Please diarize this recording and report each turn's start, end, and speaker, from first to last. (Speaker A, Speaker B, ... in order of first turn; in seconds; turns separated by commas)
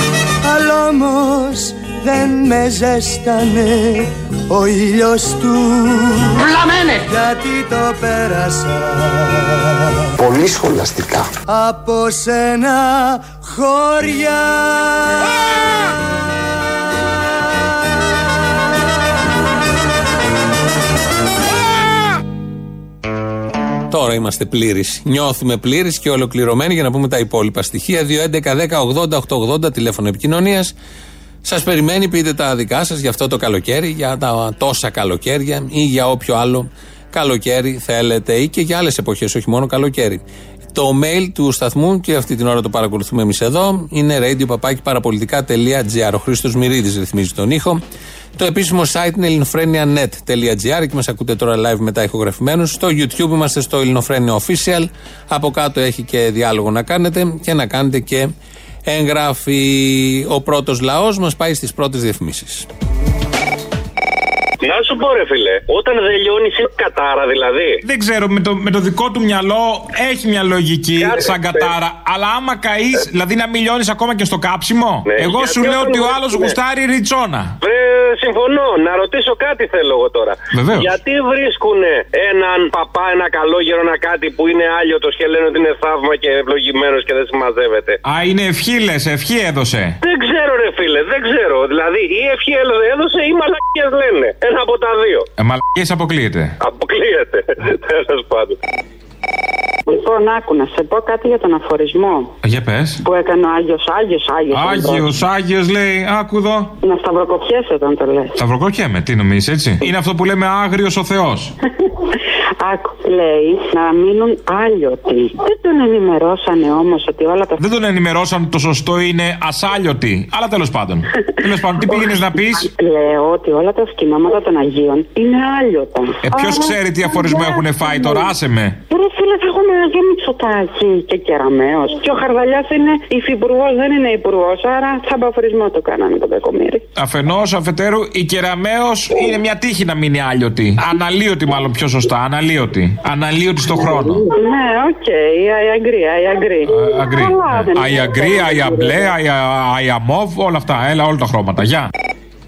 Speaker A: 0.4-9.9, Speaker A: 11.5-15.2, Speaker B: 23.9-30.7, Speaker B: 31.4-40.2, Speaker B: 40.7-47.8, Speaker B: 48.4-58.3, Speaker B: 58.8-62.7, Speaker C: 64.6-67.8, Speaker D: 67.8-77.5, Speaker C: 71.0-71.7, Speaker C: 75.1-76.5, Speaker C: 77.6-88.0, Speaker D: 80.5-80.9, Speaker D: 88.0-90.0, Speaker C: 90.0-95.3, Speaker D: 95.4-96.5, Speaker C: 96.6-98.6, Speaker E: 99.9-102.3, Speaker D: 102.4-103.0, Speaker E: 103.0-105.2, Speaker D: 104.5-106.7, Speaker E: 106.8-108.4, Speaker D: 108.4-111.5, Speaker E: 112.6-117.6, Speaker D: 117.6-122.7, Speaker E: 121.4-128.3, Speaker D: 126.2-128.8, Speaker E: 128.9-136.8, Speaker D: 137.0-144.2, Speaker E: 143.8-149.1, Speaker D: 146.7-151.9